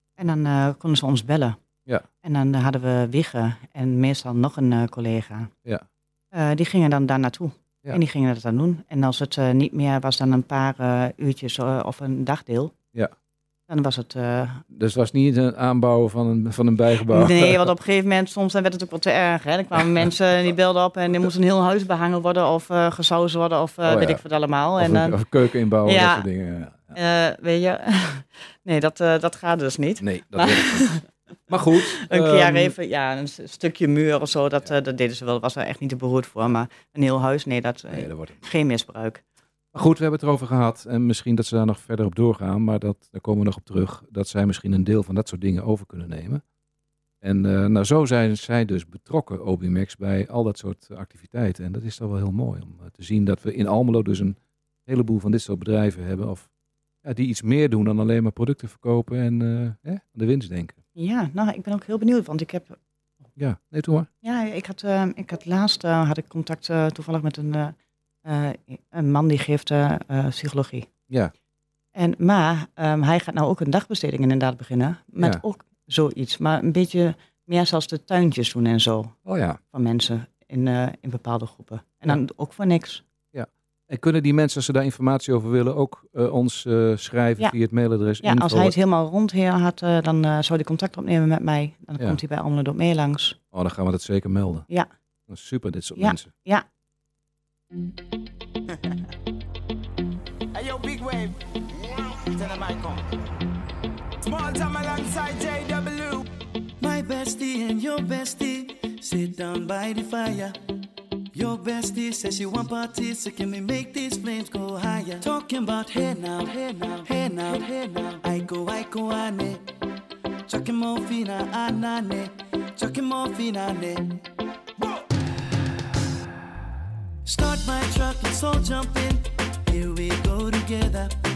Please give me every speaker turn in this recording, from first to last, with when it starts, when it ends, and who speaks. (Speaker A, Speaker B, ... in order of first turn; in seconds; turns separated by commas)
Speaker A: 0.2-1.6, Speaker A: 2.2-5.5, Speaker A: 6.3-12.7, Speaker A: 13.7-14.6, Speaker B: 14.7-17.7, Speaker A: 17.1-25.2, Speaker B: 19.8-20.1, Speaker B: 23.8-24.2, Speaker B: 24.8-26.9, Speaker A: 25.8-26.3, Speaker A: 26.9-31.0, Speaker B: 30.0-30.9, Speaker B: 31.5-32.7, Speaker A: 32.0-39.2, Speaker B: 37.9-38.4, Speaker B: 39.7-46.4, Speaker B: 47.2-56.5, Speaker B: 57.0-60.8, Speaker A: 61.0-62.8, Speaker B: 63.4-64.1, Speaker A: 64.2-70.9, Speaker A: 72.0-79.1, Speaker B: 79.2-79.6, Speaker A: 79.7-83.0, Speaker B: 83.3-88.8, Speaker A: 88.2-93.4, Speaker B: 93.5-94.6, Speaker B: 95.3-96.3, Speaker A: 96.0-96.6, Speaker C: 100.5-103.1, Speaker C: 104.2-106.3, Speaker D: 106.8-110.6, Speaker D: 111.3-119.6, Speaker D: 120.5-124.2, Speaker D: 127.2-131.1